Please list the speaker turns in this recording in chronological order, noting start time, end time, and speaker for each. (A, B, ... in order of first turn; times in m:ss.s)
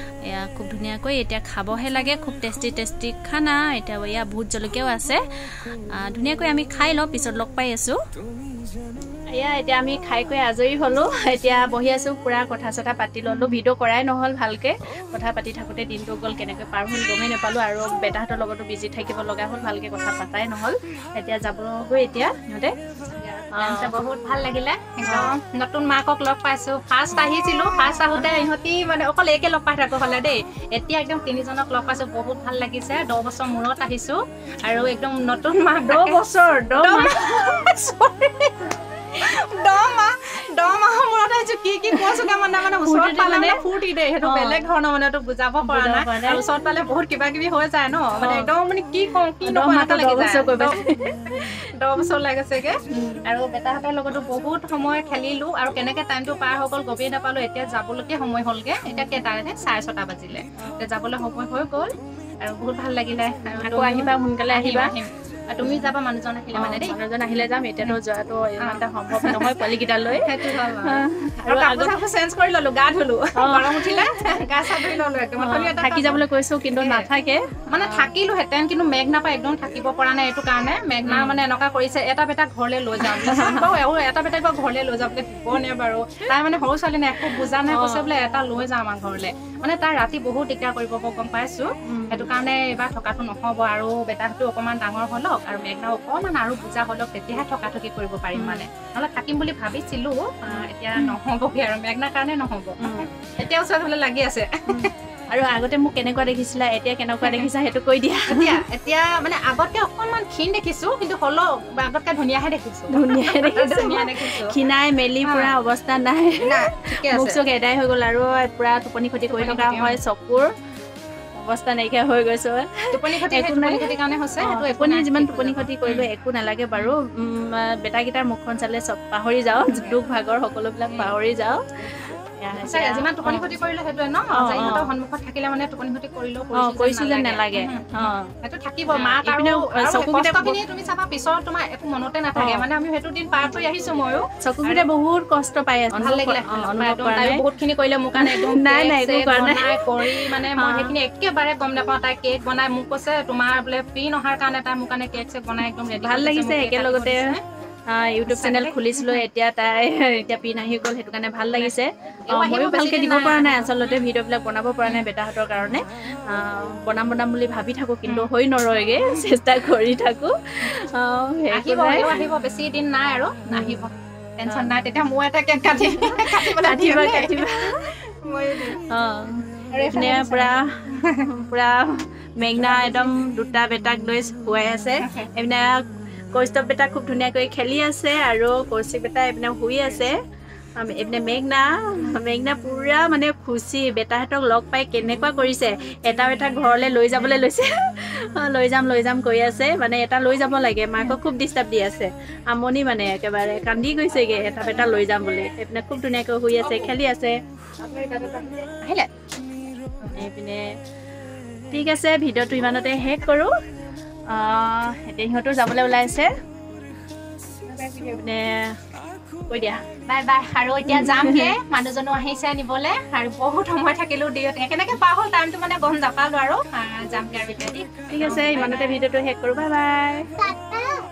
0:00.2-0:08.0 A
0:09.3-0:22.7 A
0:23.1-0:50.8 B
0:23.5-0:23.9 A
0:25.1-0:25.4 A
0:35.9-0:37.6 A
0:42.0-0:43.7 A
0:44.2-0:44.6 A
0:45.6-0:46.4 A
0:48.2-0:48.5 A
0:49.4-0:51.4 A
0:51.3-1:07.0 B
0:52.9-0:53.3 A
1:03.6-1:04.9 A
1:06.5-1:12.0 A
1:08.6-1:17.1 B
1:13.4-1:18.1 A
1:17.7-1:44.9 B
1:21.1-1:21.4 A
1:23.0-1:23.7 A
1:27.7-1:28.2 A
1:31.9-1:32.3 A
1:38.4-1:38.7 A
1:40.5-1:41.1 A
1:42.8-1:43.1 A
1:44.7-1:48.6 A
1:48.3-1:54.6 B
1:52.9-2:00.5 A
1:55.2-1:55.5 B
1:56.4-1:57.4 B
1:59.2-2:00.0 B
2:01.4-2:13.5 A
2:02.9-2:06.1 B
2:09.5-2:10.0 B
2:10.8-2:11.3 B
2:12.6-2:24.9 B
2:14.3-2:14.9 A
2:16.5-2:18.3 A
2:18.9-2:20.6 A
2:22.4-2:22.7 A
2:24.4-2:27.4 A
2:25.9-2:37.4 B
2:28.2-2:30.9 A
2:35.9-2:37.3 A
2:37.9-2:52.2 A
2:38.3-2:39.3 B
2:42.3-2:44.0 B
2:51.5-2:58.8 B
2:53.5-2:53.8 A
2:55.7-2:57.9 A
2:58.9-3:10.2 A
2:59.7-3:01.3 B
3:02.5-3:03.1 B
3:05.0-3:05.3 B
3:10.8-3:27.4 A
3:24.4-3:24.9 B
3:26.6-3:27.0 B
3:27.8-3:29.1 B
3:30.1-3:30.8 A
3:31.7-3:33.5 A
3:34.3-3:36.3 A
3:37.7-3:38.2 B
3:38.1-3:38.8 A
3:39.5-3:39.8 A
3:40.0-3:49.0 B
3:41.0-3:41.4 A
3:48.1-3:50.3 A